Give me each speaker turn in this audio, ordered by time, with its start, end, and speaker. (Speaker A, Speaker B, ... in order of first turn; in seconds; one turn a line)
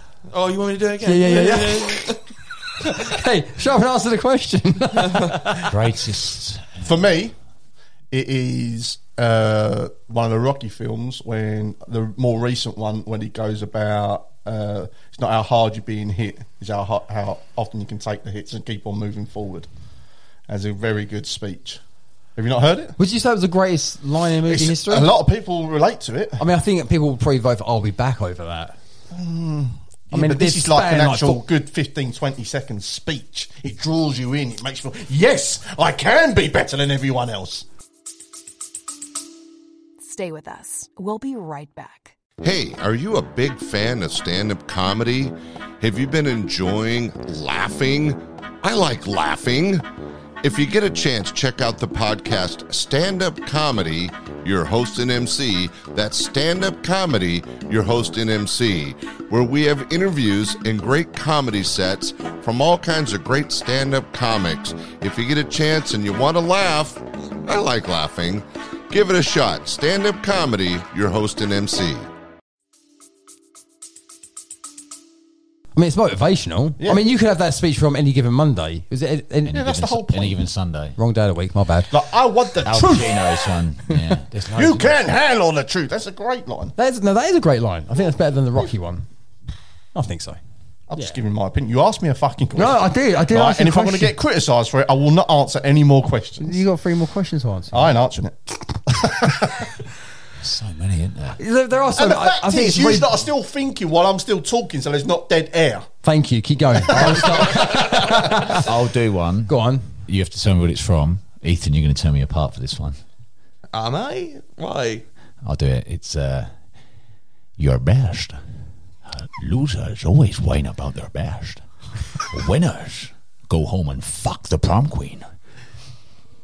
Speaker A: 0.3-2.2
Speaker B: 1.0-2.1
Speaker B: 2.8-5.6
Speaker C: 5.7-6.8
Speaker D: 6.8-7.3
Speaker D: 8.1-19.7
Speaker D: 20.5-21.8
Speaker D: 22.4-23.0
Speaker B: 23.0-25.1
Speaker D: 24.4-26.4
Speaker B: 26.4-28.8
Speaker D: 29.1-37.6
Speaker B: 30.1-31.4
Speaker E: 40.0-42.1
Speaker F: 42.4-49.8
Speaker F: 50.4-72.0
Speaker B: 75.7-79.6
Speaker C: 79.5-81.0
Speaker D: 79.5-80.4
Speaker B: 81.0-81.9
Speaker D: 81.9-83.2
Speaker C: 82.6-84.9
Speaker D: 84.5-86.7
Speaker B: 86.8-89.0
Speaker B: 89.9-90.4
Speaker D: 90.9-96.6
Speaker B: 92.5-94.2
Speaker B: 96.4-97.8
Speaker D: 97.7-99.6
Speaker C: 100.4-101.4
Speaker B: 101.4-103.1
Speaker D: 102.0-105.9
Speaker B: 106.0-108.6
Speaker D: 106.9-107.7
Speaker C: 108.5-113.0
Speaker B: 109.5-109.9
Speaker A: 113.7-115.0
Speaker C: 115.4-116.5
Speaker C: 117.6-118.4
Speaker C: 119.1-121.6
Speaker C: 122.2-125.3